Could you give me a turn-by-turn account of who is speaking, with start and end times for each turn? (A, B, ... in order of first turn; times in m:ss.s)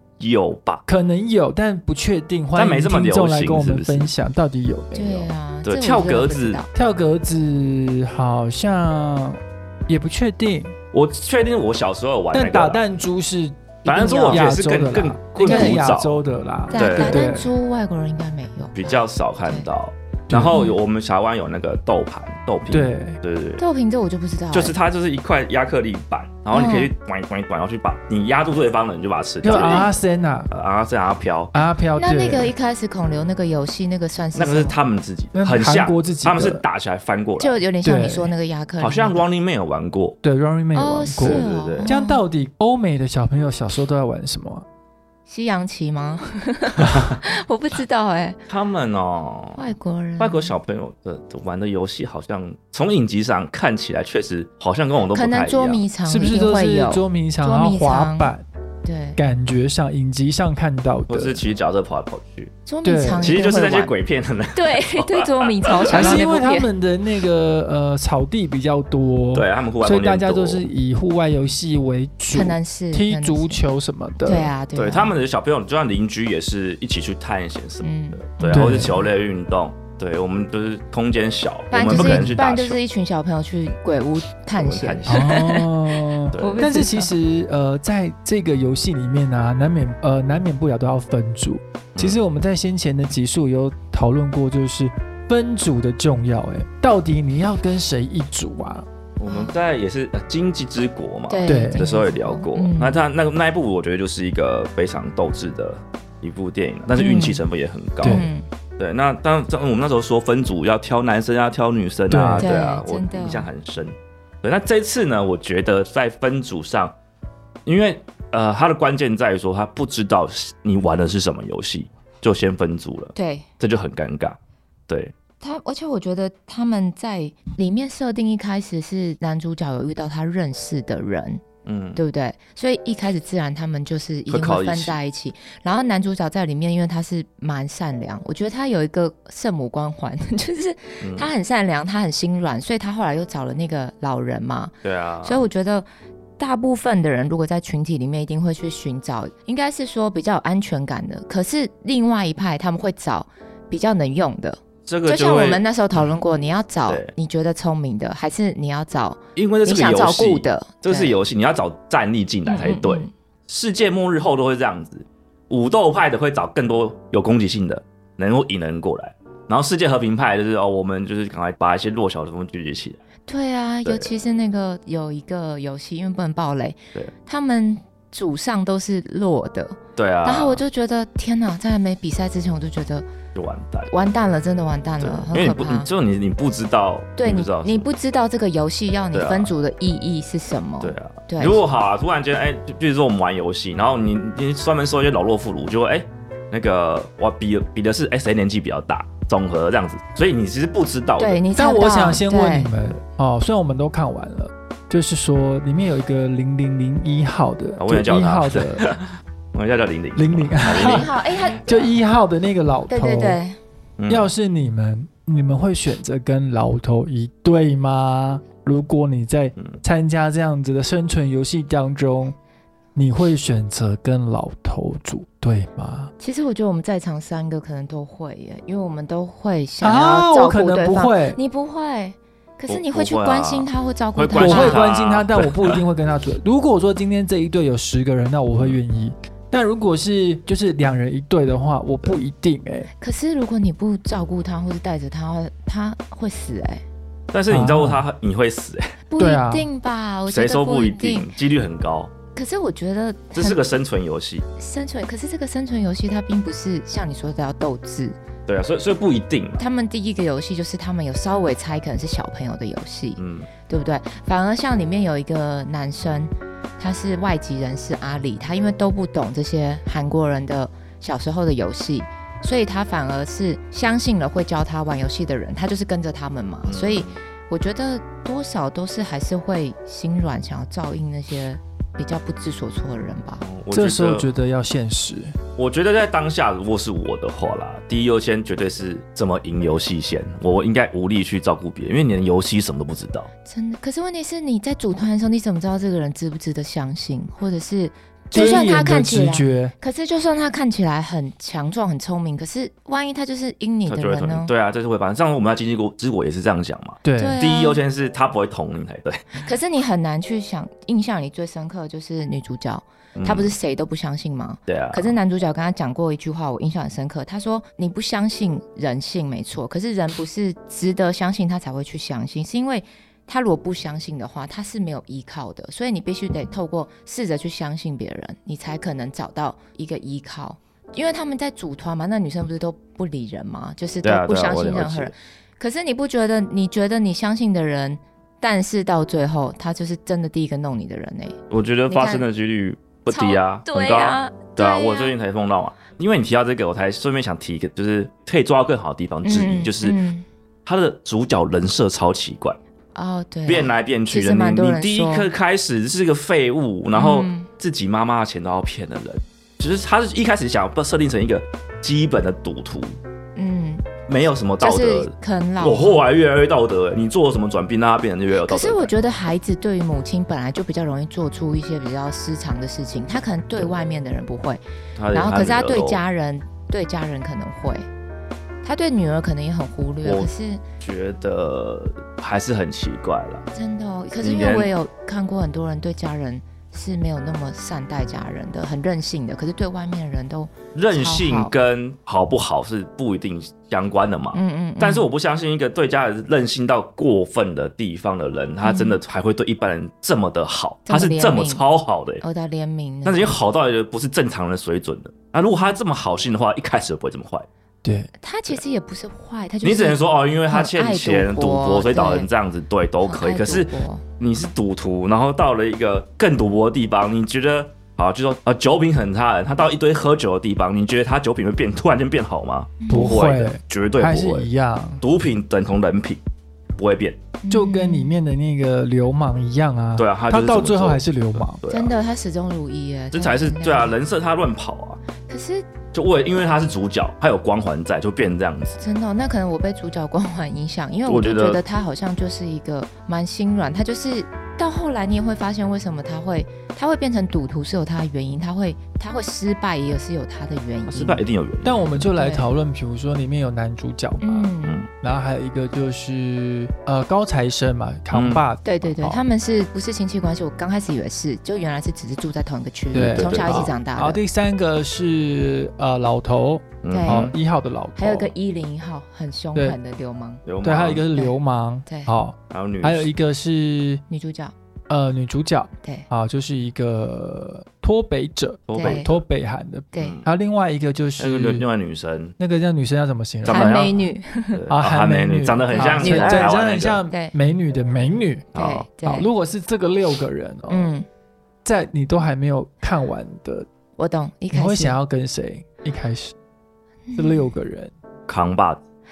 0:00.2-0:00.8 A
0:00.9-0:05.3 B
0:02.6-0:04.1 A
0:04.9-0:06.7 C
0:05.6-0:06.6 A
0:06.7-0:10.8 B
0:10.9-0:12.8 A
0:12.3-0:17.5 B
0:13.9-0:14.4 C
0:13.9-0:16.2 A
0:15.4-0:15.8 C
0:16.7-0:19.7 C
0:16.7-0:17.2 A
0:18.8-0:23.6 A
0:20.3-0:20.6 B
0:20.5-0:20.8 C
0:22.7-0:23.2 B
0:23.6-0:24.8 C
0:24.5-0:29.9 A
0:26.5-0:26.9 C
0:29.4-0:30.5 B
0:29.5-0:29.9 C
0:30.5-0:31.5 A
0:31.5-0:32.5 B
0:32.0-0:34.8 C
0:34.4-0:37.6 A
0:35.4-0:36.6 B
0:37.4-0:39.2 C
0:37.8-0:38.3 B
0:38.8-0:40.2 A
0:40.2-0:44.6 B
0:40.8-0:42.2 C
0:41.2-0:41.9 A
0:45.3-0:48.4 C
0:46.9-0:47.2 A
0:48.5-0:49.7 A
0:49.6-0:50.5 C
0:50.2-0:55.8 A
0:55.1-0:58.3 C
0:56.1-0:58.4 B
0:58.8-0:59.2 C
0:59.2-1:01.4 B
1:01.1-1:02.5 A
1:02.7-1:03.9 C
1:02.8-1:03.3 B
1:03.2-1:06.2 A
1:04.5-1:06.7 C
1:05.9-1:14.5 B
1:09.3-1:10.7 A
1:12.3-1:13.6 C
1:14.2-1:15.1 C
1:14.7-1:22.8 A
1:17.8-1:19.1 C
1:18.5-1:19.0 B
1:21.7-1:27.1 C
1:21.9-1:22.4 B
1:24.6-1:25.3 A
1:25.1-1:38.9 B
1:26.3-1:26.7 A
1:39.2-1:48.3 A
1:39.2-1:39.6 C
1:41.3-1:43.0 C
1:41.5-1:41.8 B
1:47.0-1:47.4 C
1:48.0-1:48.3 B
1:48.0-1:48.5 C
1:48.8-1:56.9 A
1:52.1-1:52.5 B
1:52.4-1:53.5 C
1:57.6-2:04.4 A
2:03.1-2:03.5 C
2:04.9-2:05.1 A
2:05.4-2:11.4 C
2:11.6-2:12.0 A
2:12.0-2:25.9 C
2:14.3-2:15.0 A
2:21.0-2:21.3 A
2:24.8-2:25.4 A
2:26.4-2:41.2 C
2:34.9-2:35.6 A
2:36.9-2:37.1 A
2:39.4-2:53.0 A
2:42.5-2:43.1 C
2:53.3-3:03.1 C
2:53.8-2:54.1 A
3:00.0-3:00.6 A
3:03.4-3:03.9 A
3:03.9-3:05.9 C
3:05.0-3:07.8 A
3:07.2-3:11.6 C
3:09.1-3:09.5 A
3:10.8-3:21.4 A
3:21.2-3:22.7 C
3:21.5-3:28.9 B
3:27.8-3:31.8 A
3:30.2-3:31.1 B
3:30.7-3:31.9 C
3:31.6-3:33.4 B
3:32.9-3:33.6 C
3:34.0-3:34.3 A
3:34.1-3:42.4 B
3:39.6-3:39.8 A
3:43.0-3:46.1 B
3:46.2-3:54.8 C
3:49.8-3:51.4 B
3:52.7-3:55.8 A
3:54.4-4:02.9 B
4:03.0-4:06.8 C
4:07.3-4:08.9 A
4:07.5-4:08.0 B
4:09.1-4:11.3 C
4:09.2-4:09.7 B
4:10.3-4:12.1 A
4:12.4-4:13.6 C
4:13.4-4:14.5 A
4:14.6-4:18.2 C
4:18.5-4:19.6 A
4:19.6-4:43.4 C
4:23.2-4:23.5 A
4:36.6-4:37.2 A
4:43.4-4:44.2 A
4:43.7-4:45.4 B
4:45.6-4:53.3 A
4:53.4-5:04.5 C
4:58.3-4:59.7 B
5:03.9-5:09.5 A
5:07.0-5:07.4 B
5:07.2-5:07.8 C
5:09.4-5:41.4 C
5:13.2-5:13.5 A
5:14.7-5:15.2 A
5:34.0-5:35.1 A
5:41.5-5:50.0 A
5:41.9-5:42.2 C
5:43.1-5:45.1 C
5:49.2-5:50.2 C
5:50.6-5:52.6 A
5:53.0-5:55.3 C
5:53.5-6:03.0 A
5:56.9-5:57.5 C
6:03.4-6:03.9 C
6:04.1-6:08.9 A
6:04.6-6:06.0 C
6:08.4-6:14.6 C
6:15.0-6:16.0 A
6:15.1-6:17.9 C
6:18.6-6:20.6 C
6:20.0-6:20.3 A
6:20.8-6:23.5 A
6:23.5-6:31.5 C
6:24.2-6:24.7 A
6:30.8-6:42.2 A
6:34.3-6:35.1 C
6:38.6-6:39.0 C
6:40.9-6:41.6 C
6:42.2-6:43.4 C
6:43.0-6:47.5 A
6:47.8-6:48.1 B
6:48.2-6:52.3 C
6:49.6-7:04.5 A
6:53.0-6:54.0 C
7:02.8-7:03.2 C
7:02.9-7:05.0 B
7:05.0-7:06.2 A
7:06.8-7:07.2 A
7:07.4-7:08.1 C
7:07.5-7:11.6 B
7:10.0-7:11.9 A
7:11.7-7:14.0 C
7:13.1-7:15.0 A
7:15.3-7:15.7 C
7:15.9-7:18.8 A
7:18.8-7:31.2 C
7:21.1-7:21.6 A
7:30.9-7:32.0 A
7:31.6-7:39.2 B
7:32.2-7:32.5 C
7:34.2-7:34.8 C
7:38.1-7:38.4 A
7:38.6-7:44.2 C
7:42.9-7:48.3 B
7:43.1-7:43.7 A
7:46.8-7:47.3 A
7:46.9-7:47.3 C
7:48.0-7:50.4 C
7:50.4-7:51.0 A
7:50.6-7:54.0 B
7:51.9-7:52.1 C
7:52.5-7:53.1 A
7:54.1-7:54.5 C
7:54.9-8:01.7 B
7:58.7-7:59.1 A
7:58.8-7:59.1 C
7:59.9-8:00.2 C
8:00.0-8:00.3 A
8:01.2-8:02.4 A
8:02.4-8:03.8 B
8:03.4-8:04.0 A
8:03.5-8:04.6 C
8:04.5-8:07.0 A
8:04.7-8:08.5 B
8:05.7-8:06.5 C
8:07.1-8:07.3 C
8:08.5-8:08.9 A
8:08.5-8:09.3 C
8:09.0-8:10.9 B
8:10.7-8:11.1 C
8:11.6-8:13.7 B
8:14.0-8:15.0 C
8:14.5-8:16.4 B
8:17.1-8:17.5 C
8:17.2-8:17.9 B
8:18.3-8:18.8 A